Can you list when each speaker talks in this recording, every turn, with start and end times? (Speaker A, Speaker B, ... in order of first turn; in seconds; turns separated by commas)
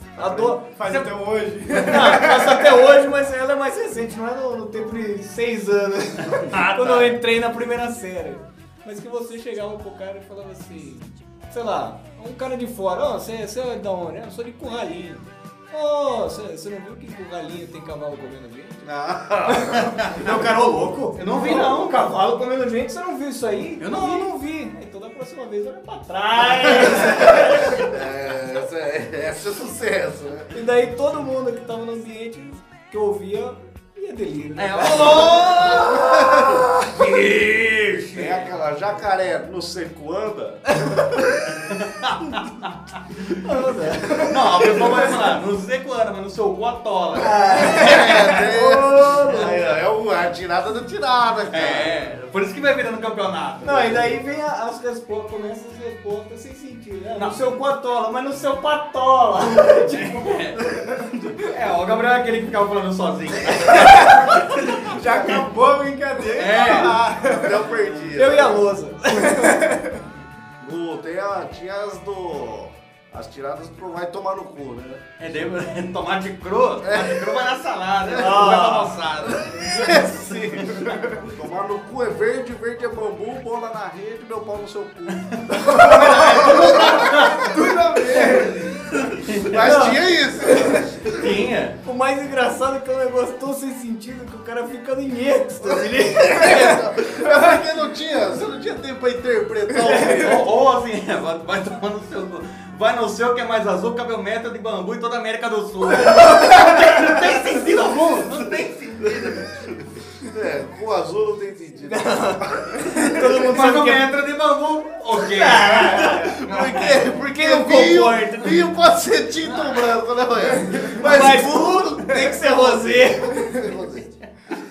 Speaker A: 0.2-1.0, Speaker B: 0.2-2.9, Speaker A: 1.7-18.8, Speaker C: 6.3-7.2, Speaker D: 18.8-20.2, Speaker A: 19.5-27.8, Speaker C: 20.0-20.5, Speaker C: 21.1-22.1, Speaker C: 23.8-24.4, Speaker D: 27.3-30.5, Speaker A: 30.5-36.9, Speaker C: 34.6-38.5, Speaker D: 38.1-41.2, Speaker C: 41.5-43.4, Speaker A: 43.4-45.0, Speaker C: 44.2-48.4, Speaker A: 47.2-49.5, Speaker D: 47.6-52.0, Speaker C: 51.5-54.1, Speaker A: 53.6-60.3, Speaker C: 59.6-60.7, Speaker C: 61.4-65.4, Speaker B: 63.8-64.2, Speaker B: 64.8-67.6, Speaker C: 66.3-67.1, Speaker D: 67.0-68.7, Speaker A: 68.1-69.8, Speaker B: 69.4-69.9, Speaker D: 70.6-75.4, Speaker C: 75.2-81.0, Speaker D: 76.8-77.4, Speaker D: 78.1-78.6, Speaker A: 78.2-79.0, Speaker D: 79.2-91.3, Speaker C: 85.1-87.5, Speaker B: 87.3-88.7, Speaker C: 89.2-89.6, Speaker A: 89.5-90.8, Speaker C: 91.1-91.8, Speaker A: 91.8-96.8, Speaker D: 96.2-100.5, Speaker C: 100.2-109.8, Speaker A: 106.2-106.7, Speaker D: 110.2-113.4, Speaker A: 111.9-114.1, Speaker C: 113.2-117.1, Speaker A: 115.2-116.4, Speaker D: 116.0-124.1, Speaker A: 117.2-118.6, Speaker C: 119.5-119.9, Speaker A: 121.0-123.5